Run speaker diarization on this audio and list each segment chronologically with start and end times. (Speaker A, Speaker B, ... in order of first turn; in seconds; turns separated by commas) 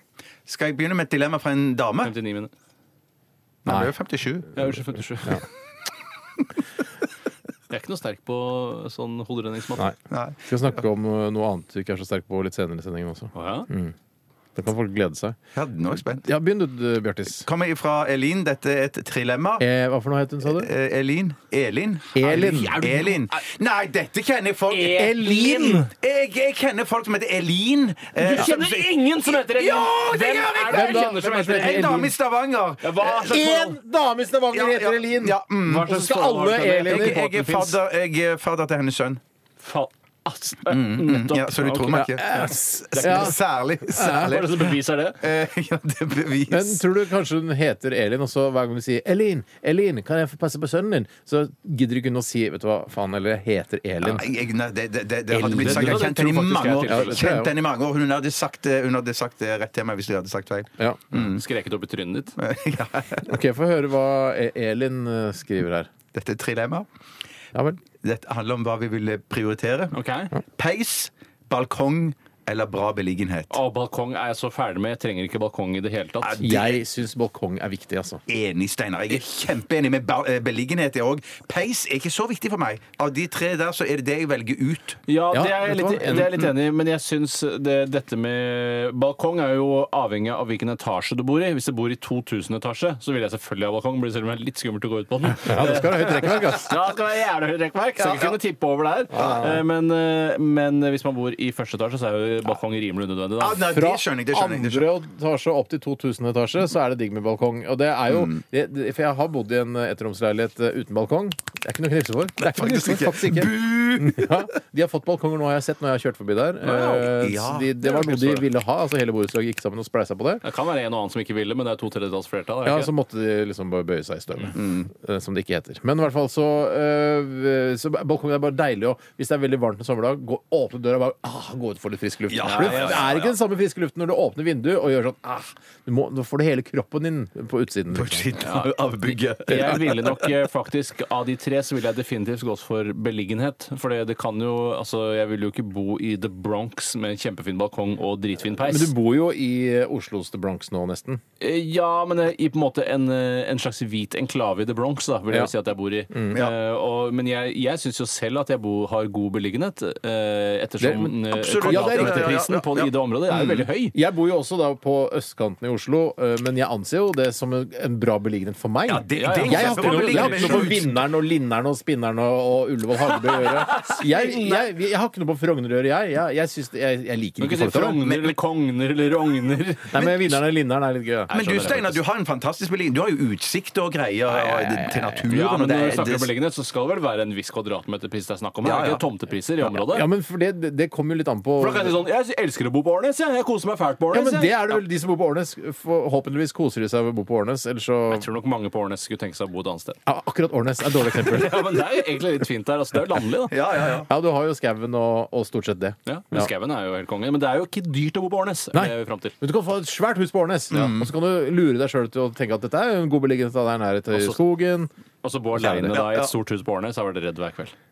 Speaker A: 0.5-2.1, Speaker B: 2.0-2.5, Speaker A: 3.6-4.5, Speaker B: 4.5-5.4, Speaker B: 7.7-9.8, Speaker C: 9.8-13.9, Speaker A: 10.1-10.4, Speaker B: 13.3-13.7, Speaker C: 14.6-15.4, Speaker A: 15.5-16.3, Speaker C: 16.2-17.4, Speaker A: 17.4-19.6, Speaker C: 19.6-20.7, Speaker A: 20.4-33.4, Speaker C: 22.1-22.8, Speaker B: 22.2-23.4, Speaker B: 24.7-25.9, Speaker C: 24.9-25.9, Speaker B: 28.2-31.9, Speaker C: 30.7-32.1, Speaker B: 32.8-33.8, Speaker C: 33.3-37.2, Speaker A: 34.5-35.9, Speaker B: 35.6-37.8, Speaker A: 36.9-39.2, Speaker B: 39.6-43.4, Speaker A: 40.7-46.8, Speaker C: 41.9-43.4, Speaker C: 43.9-44.4, Speaker B: 44.0-45.2, Speaker C: 46.5-54.3, Speaker A: 54.0-61.4, Speaker C: 55.3-56.1, Speaker B: 55.4-57.3, Speaker C: 56.8-57.5, Speaker B: 61.1-62.4, Speaker A: 62.4-63.3, Speaker C: 63.3-65.9, Speaker A: 66.1-66.8, Speaker C: 67.5-67.8, Speaker A: 68.0-69.9, Speaker B: 69.9-70.3, Speaker A: 70.5-73.5, Speaker B: 73.5-76.6, Speaker A: 76.2-76.8, Speaker C: 76.4-78.2, Speaker A: 78.3-85.0, Speaker B: 85.1-103.7, Speaker C: 85.3-86.5, Speaker C: 95.4-96.8, Speaker A: 98.0-98.3, Speaker C: 99.1-99.6, Speaker A: 103.4-104.9, Speaker C: 103.7-120.4, Speaker A: 108.1-108.4, Speaker A: 112.4-114.4, Speaker B: 116.6-118.5, Speaker A: 117.2-117.7, Speaker B: 120.4-122.9, Speaker C: 122.6-138.7, Speaker A: 124.5-124.9, Speaker A: 132.3-133.2, Speaker B: 132.4-133.2, Speaker A: 137.9-140.2, Speaker B: 139.4-148.9, Speaker C: 148.5-151.2, Speaker B: 151.4-163.9, Speaker C: 156.1-156.3, Speaker C: 160.8-162.4, Speaker A: 161.3-163.7, Speaker C: 163.9-178.1, Speaker A: 168.8-170.9, Speaker B: 169.1-170.9, Speaker B: 173.1-174.7, Speaker B: 177.4-180.4, Speaker A: 178.0-178.3, Speaker C: 179.9-181.9, Speaker A: 181.3-186.3, Speaker B: 181.3-181.8, Speaker C: 184.3-185.2, Speaker B: 185.3-190.1, Speaker A: 188.6-189.0, Speaker C: 189.6-192.0, Speaker B: 191.6-194.8, Speaker C: 194.1-198.3, Speaker B: 198.1-200.0, Speaker C: 200.1-201.8, Speaker B: 201.0-203.6, Speaker A: 203.5-204.1, Speaker C: 204.0-206.5, Speaker B: 206.1-209.4, Speaker C: 208.7-214.9, Speaker A: 210.7-211.1, Speaker B: 214.1-214.5, Speaker B: 215.2-217.7, Speaker C: 215.5-216.1, Speaker A: 215.9-216.3